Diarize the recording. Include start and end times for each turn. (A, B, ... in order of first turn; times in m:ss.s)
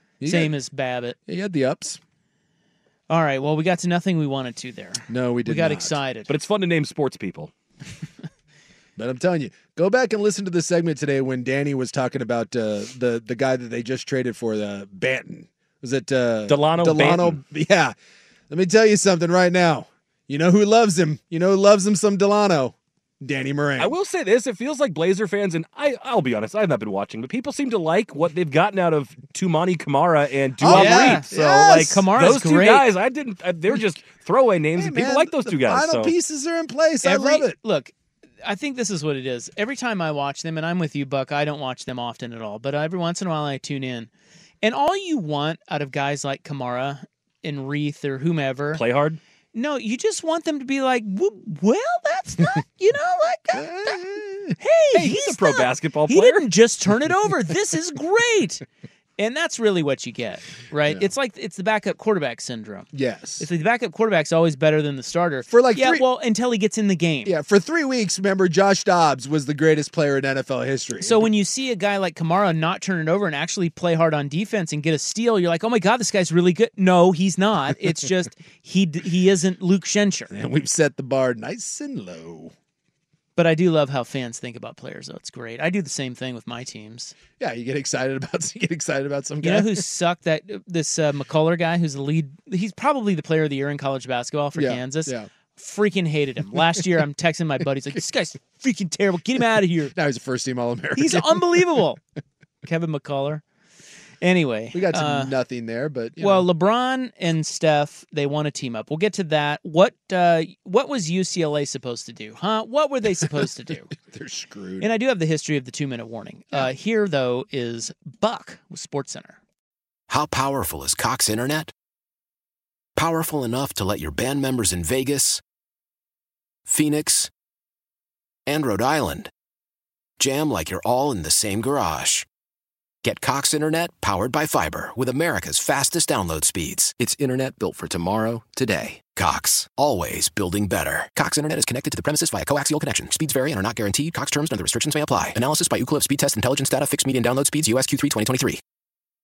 0:00.2-0:00.5 A
0:00.2-0:01.2 B
0:01.2-0:02.0 A
0:03.1-0:06.3 B
0:05.1-0:06.0 A
0:06.3-0:07.5 C
0:09.0-0:17.9 A
0:16.5-0:17.4 C
0:18.5-0:23.9 A
0:23.8-0:36.1 C
0:30.6-0:32.1 A
0:30.6-0:32.9 B
0:34.8-0:37.6 A
0:37.0-0:44.1 B
0:44.6-0:48.8 B
0:48.7-0:49.2 C
0:49.5-0:54.0 B
0:53.5-0:54.6 A
0:54.6-0:58.6 B
0:54.9-0:56.4 C
0:59.2-1:07.3 B
1:02.9-1:03.5 A
1:05.5-1:06.0 A
1:07.2-1:11.3 A
1:11.0-1:20.3 B
1:20.3-1:22.5 A
1:23.4-1:27.1 B
1:27.4-1:29.8 A
1:29.4-1:39.9 B
1:34.5-1:35.3 A
1:39.9-1:41.8 A
1:41.0-1:42.0 B
1:42.6-1:43.4 B
1:44.2-1:45.3 B
1:44.7-1:46.5 A
1:46.2-1:53.9 B
1:54.0-1:54.9 A
1:54.8-1:59.4 B
2:00.1-2:01.7 D
2:03.0-2:05.4 D
2:06.6-2:07.3 D
2:08.5-2:09.3 D
2:10.2-2:12.2 D
2:13.0-2:28.6 D